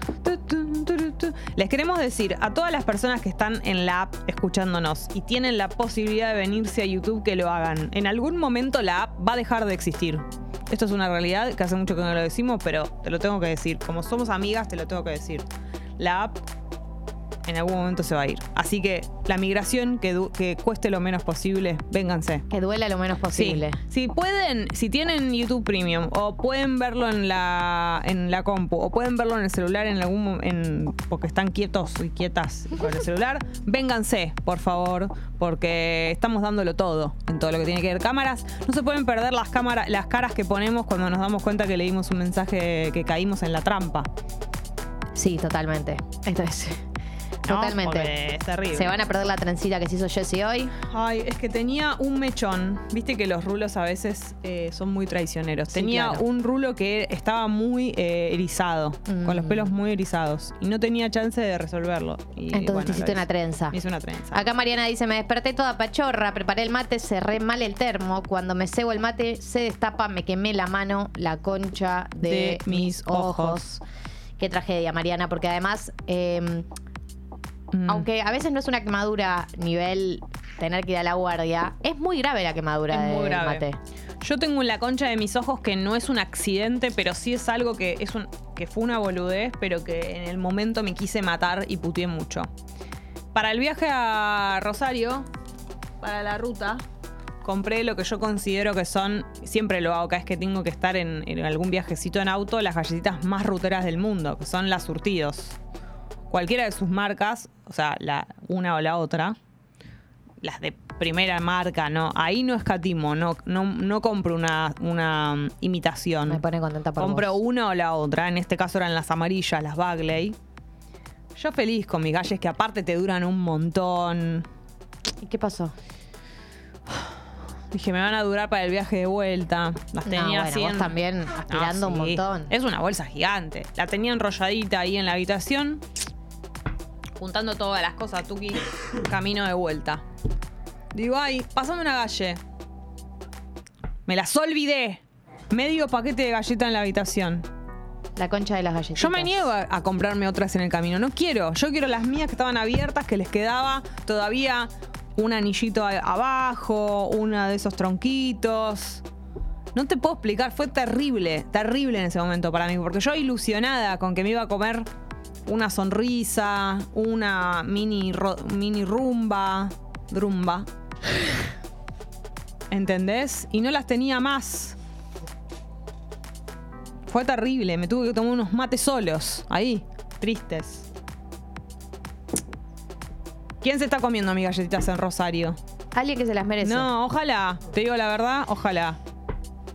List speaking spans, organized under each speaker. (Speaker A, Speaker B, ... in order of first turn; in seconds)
Speaker A: 0.2-15.4, 16.0-16.4, 17.4-22.4, 23.3-44.1, 47.5-49.0, 50.8-64.4, 72.2-73.7, 77.7-78.1, 82.9-83.6, 84.2-92.5, 93.3-95.2, 96.0-96.8, 97.4-105.5, 106.3-109.4, 110.4-116.4, 117.0-120.3, 121.3-124.5, 127.7-130.9, 131.5-135.8, 137.2-140.0, 140.9-142.4, 144.1-147.4, 148.9-159.0, 159.7-164.9, 165.4-170.7, 172.7-174.8, 177.1-180.9, 183.6-185.6, 186.6-189.0
Speaker B: 22.5-23.8, 45.1-46.8, 47.4-48.1, 48.7-50.7, 55.7-56.2, 59.1-59.7, 62.5-63.8, 64.3-73.8, 74.4-76.7, 77.9-83.8, 116.2-117.3, 125.2-125.7, 130.1-132.5, 148.2-149.3, 185.9-186.9